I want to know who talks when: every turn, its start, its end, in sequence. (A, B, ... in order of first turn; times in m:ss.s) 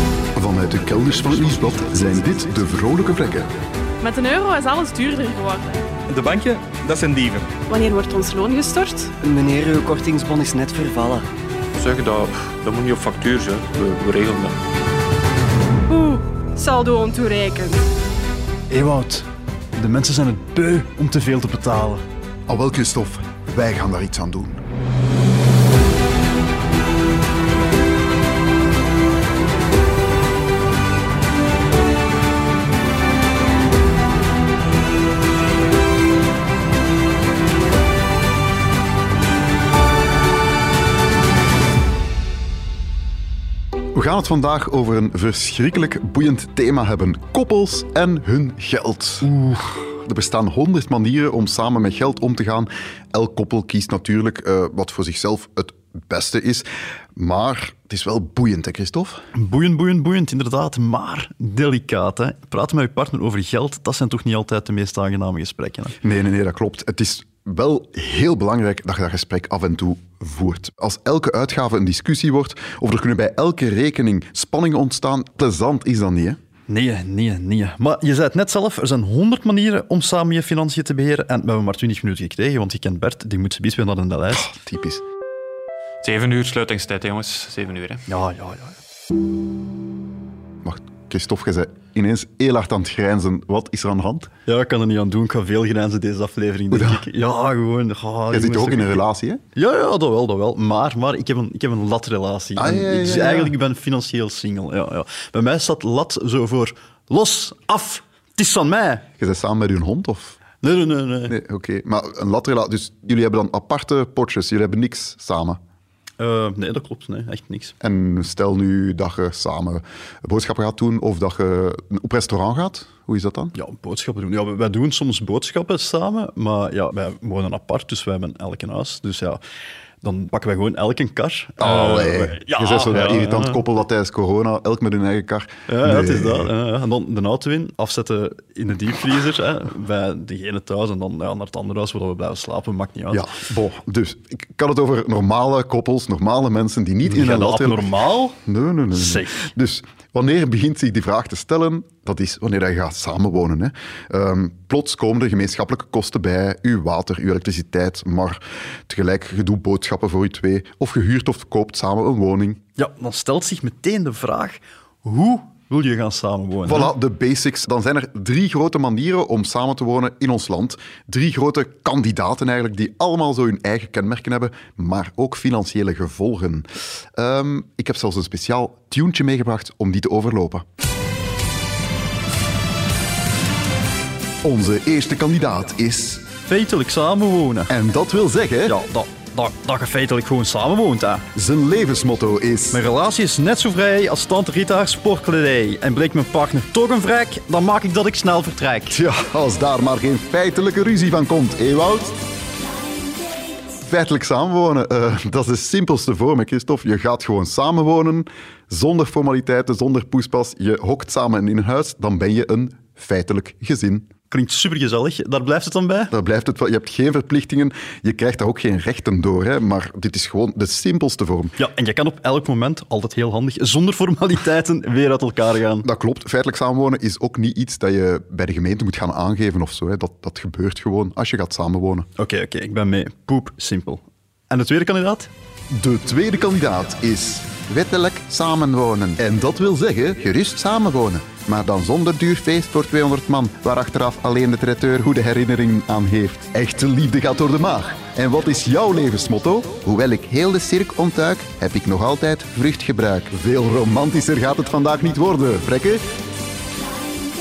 0:00.4-0:03.5 A
0:04.0-0:05.8 B
0:06.1-0:07.4 C
0:07.7-0:09.2 B
0:09.2-0:11.3 D
0:11.8-0:14.6 C
0:15.9-0:17.9 B
0:18.7-0:22.0 E
0:22.5-0:24.6 A
0:43.9-0:49.3 A
0:49.2-0:49.7 E
0:50.0-0:59.2 A
0:59.4-1:06.0 E
1:06.0-1:16.4 A
1:16.7-1:24.5 E
1:24.3-1:25.0 A
1:26.0-1:28.0 C
1:28.1-1:28.8 E
1:30.6-1:34.3 A
1:34.5-1:39.0 E
1:36.7-1:37.1 A
1:38.3-1:39.4 A
1:39.6-1:49.1 E
1:42.6-1:43.5 A
1:49.2-1:50.4 A
1:50.6-1:51.4 E
1:51.3-1:55.6 A
1:56.2-1:57.8 E
1:57.8-2:03.5 A
2:03.5-2:09.4 E
2:10.0-2:13.6 E
2:11.6-2:16.5 A
2:15.7-2:23.3 E
2:23.1-2:27.9 A
2:27.0-2:28.4 E
2:28.4-2:42.6 A
2:28.9-2:29.5 E
2:42.8-2:46.9 E
2:46.6-3:00.6 A
3:04.4-3:06.2 A
3:06.5-3:07.7 E
3:07.7-3:08.8 A
3:08.7-3:11.3 E
3:11.4-3:12.8 A
3:12.7-3:19.0 E
3:18.9-3:22.2 A
3:23.8-3:34.1 A
3:34.3-3:36.1 E
3:36.1-3:41.6 A
3:41.6-3:45.9 E
3:45.8-3:52.1 A
3:52.2-3:55.3 E
3:55.7-4:16.0 A